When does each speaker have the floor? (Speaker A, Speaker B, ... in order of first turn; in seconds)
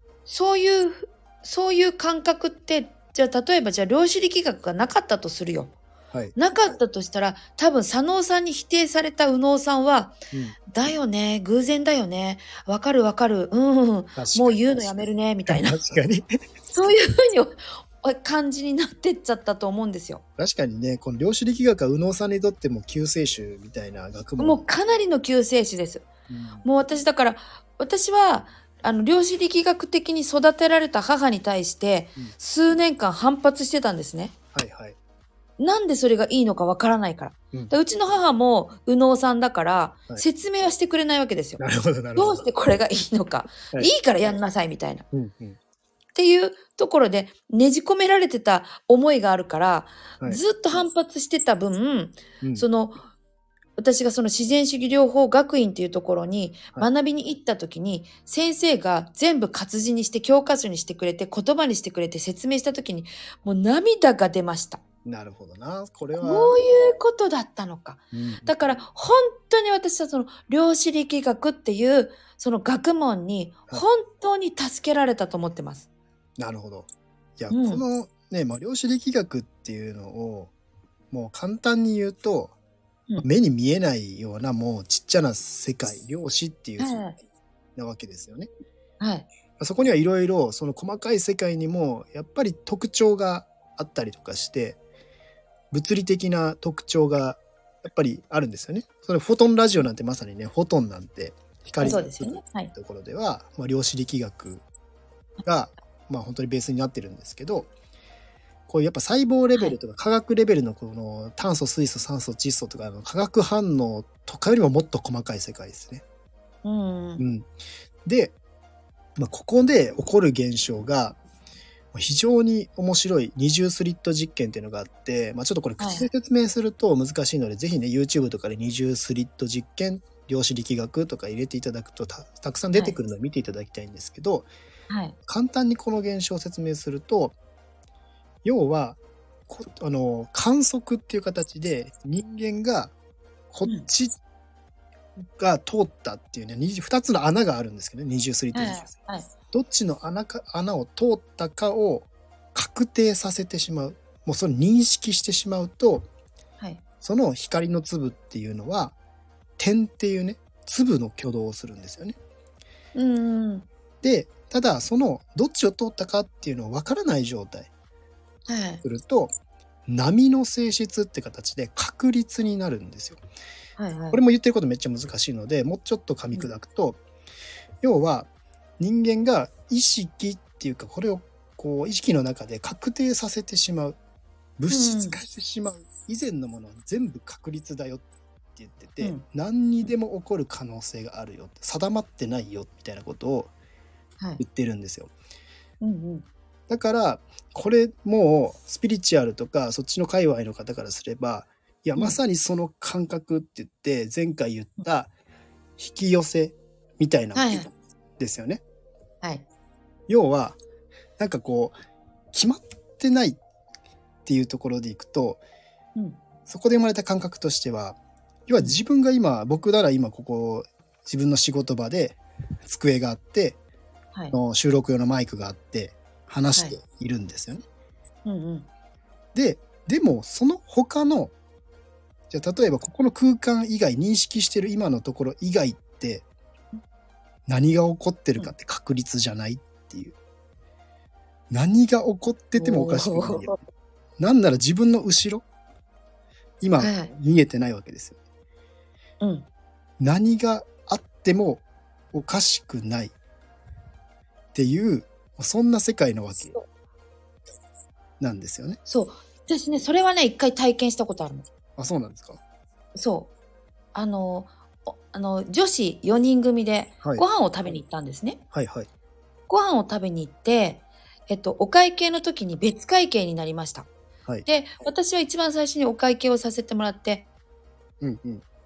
Speaker A: 0.3-5.7, 6.4-10.2, 10.7-15.8, 16.7-20.2, 24.4-26.1, 26.6-34.3, 35.6-41.6, 42.2-45.0, 46.1-53.0, 53.8-64.8, 66.2-75.9, 77.5-77.8, 86.8-87.2, 89.0-89.3, 101.8-102.7, 116.6-117.2, 125.8-126.1, 134.9-135.2, 148.5-149.3, 162.9-163.7, 168.5-168.8, 173.8-174.2, 184.7-185.2, 195.8-196.3, 207.3-207.7, 228.2-228.7, 242.6-243.6, 246.8-247.1, 249.2-249.5, 258.9-261.5, 263.0-263.3, 263.9-268.4, 269.5-273.9, 274.5-277.3
Speaker B: 14.2-16.3, 20.4-24.6, 26.3-26.6, 34.5-35.0, 41.6-42.5, 45.1-45.6, 52.4-52.7, 65.0-66.6, 68.1-68.5, 76.4-80.5, 81.1-82.5, 83.2-87.1, 87.8-88.5, 89.6-94.8, 95.7-104.7, 105.4-107.7, 108.7-116.0, 117.2-117.5, 118.0-118.4, 119.2-121.2, 121.9-134.5, 135.3-137.3, 138.4-142.9, 143.5-144.2, 145.2-148.9, 149.5-156.1, 157.0-158.9, 159.6-162.2, 164.0-167.7, 168.8-169.3, 169.9-173.2, 174.1-177.0, 177.8-178.3, 178.8-184.0, 184.6-188.0, 188.6-193.5, 194.4-195.1, 196.7-205.1, 205.8-208.6, 210.1-210.6, 211.2-211.8, 212.3-213.4, 214.3-215.4, 216.5-223.6, 224.3-227.6, 229.3-231.3, 232.3-236.2, 237.5-240.2, 241.5-243.6, 244.2-245.4, 246.6-248.2, 250.0-253.1, 254.5-256.6, 258.2-258.8, 261.8-262.4, 268.5-268.9, 278.0-278.4